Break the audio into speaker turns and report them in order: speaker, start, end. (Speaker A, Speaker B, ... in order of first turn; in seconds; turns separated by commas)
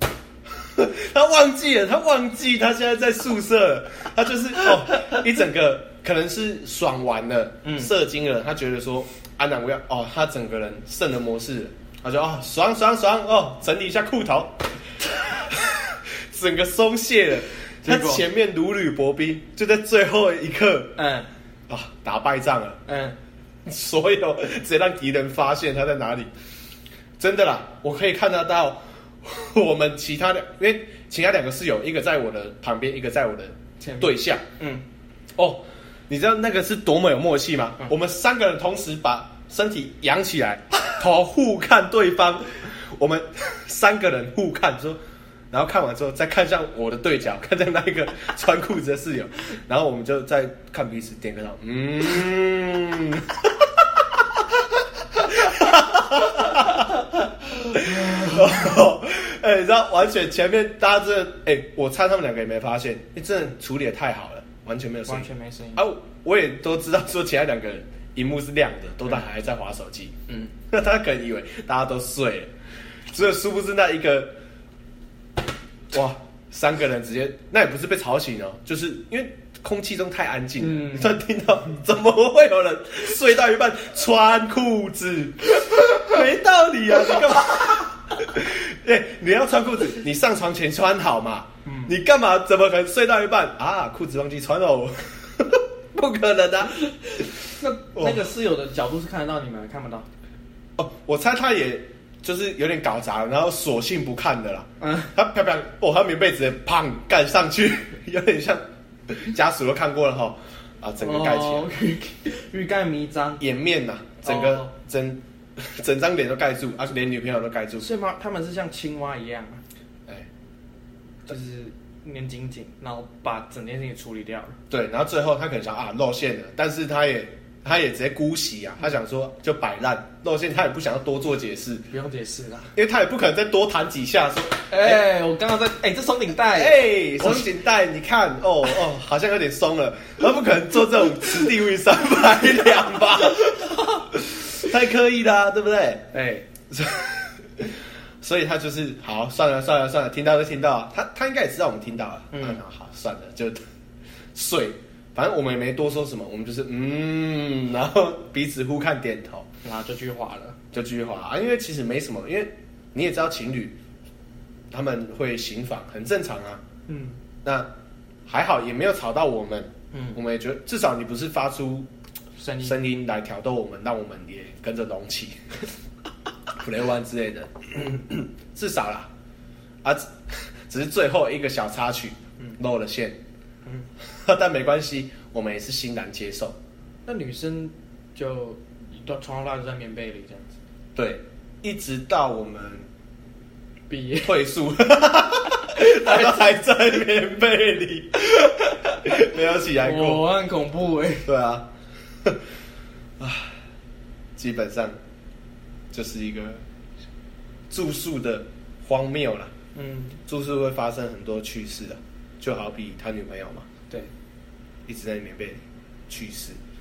Speaker A: 0.6-21.0, Speaker B: 7.6-7.9, Speaker B: 17.8-18.2, Speaker B: 21.0-21.3, Speaker A: 21.7-22.8, Speaker B: 22.9-23.2, Speaker A: 23.7-26.3, Speaker A: 27.2-34.4, Speaker B: 33.8-34.8, Speaker A: 35.4-45.0, Speaker A: 45.5-53.7, Speaker A: 55.2-56.9, Speaker A: 57.6-70.1, Speaker B: 58.0-58.6, Speaker B: 65.1-65.8, Speaker A: 70.7-72.5, Speaker A: 73.1-74.3, Speaker A: 75.9-97.4, Speaker B: 80.6-81.2, Speaker B: 91.7-91.9, Speaker B: 97.6-100.1, Speaker A: 98.0-98.3, Speaker A: 100.8-111.7, Speaker B: 104.8-105.1, Speaker B: 111.0-113.4, Speaker A: 113.4-117.9, Speaker B: 114.2-114.7, Speaker B: 117.8-119.6, Speaker B: 121.3-124.6, Speaker A: 124.7-131.9, Speaker B: 131.9-132.7, Speaker A: 132.8-135.0, Speaker B: 134.7-137.5, Speaker A: 136.5-146.1, Speaker B: 146.1-146.4, Speaker A: 146.7-147.7, Speaker A: 148.2-153.6, Speaker B: 152.3-152.6, Speaker A: 154.3-159.5, Speaker B: 159.6-160.6, Speaker A: 160.7-163.8, Speaker A: 164.7-166.6, Speaker B: 166.9-167.2, Speaker A: 167.4-167.7, Speaker A: 168.3-171.9, Speaker B: 169.9-170.2, Speaker B: 172.4-172.8, Speaker A: 172.6-175.4, Speaker A: 176.6-179.1, Speaker A: 179.8-183.2, Speaker A: 184.2-186.6, Speaker B: 187.1-190.5, Speaker A: 190.9-192.9, Speaker B: 193.9-194.4, Speaker A: 194.2-200.3, Speaker B: 195.7-196.5, Speaker B: 199.8-201.3, Speaker A: 201.2-201.7, Speaker A: 203.2-203.6, Speaker A: 204.4-205.0, Speaker A: 205.9-206.6, Speaker A: 207.7-209.5, Speaker B: 209.8-210.2, Speaker A: 210.3-213.7, Speaker A: 214.9-216.6